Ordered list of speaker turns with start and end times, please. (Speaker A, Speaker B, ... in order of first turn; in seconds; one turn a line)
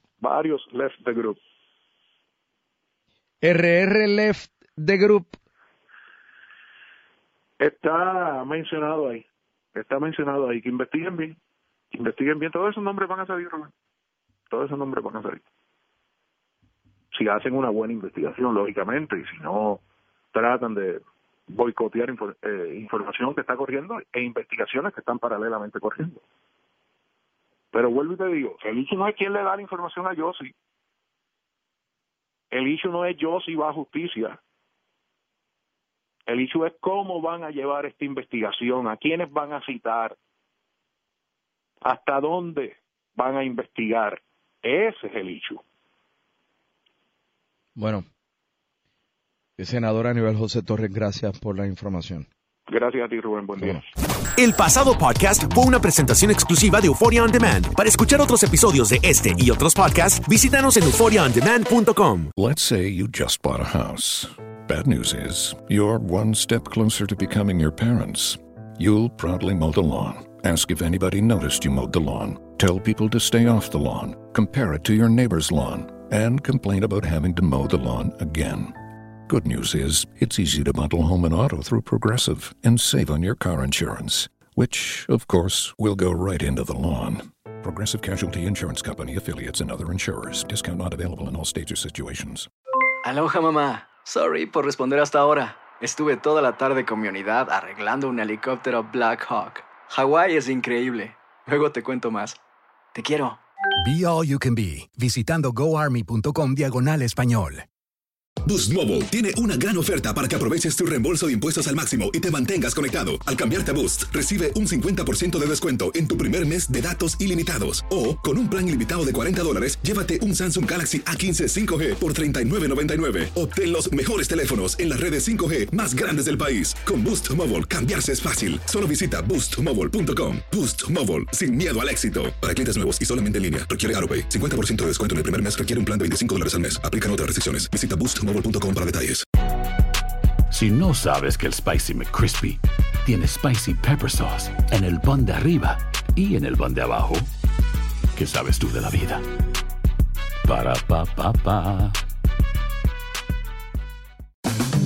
Speaker A: 0.2-1.4
Speaker B: 3.4-5.3
Speaker A: 7.6-9.2
Speaker A: 9.7-11.4
Speaker A: 11.9-13.7
Speaker A: 14.5-15.4
Speaker A: 17.1-19.8
Speaker A: 20.3-26.2
Speaker A: 27.7-30.5
Speaker A: 32.5-34.4
Speaker A: 36.3-40.1
Speaker A: 41.8-45.6
Speaker B: 47.8-48.0
Speaker B: 49.6-52.3
Speaker A: 52.7-53.8
Speaker C: 54.4-62.3
Speaker D: 62.3-78.7
Speaker D: 79.3-92.5
Speaker E: 93.0-102.4
Speaker E: 102.9-103.4
Speaker F: 103.8-107.6
Speaker G: 108.4-139.2
Speaker H: 140.5-147.2
Speaker H: 148.2-149.2
Speaker H: 150.5-151.9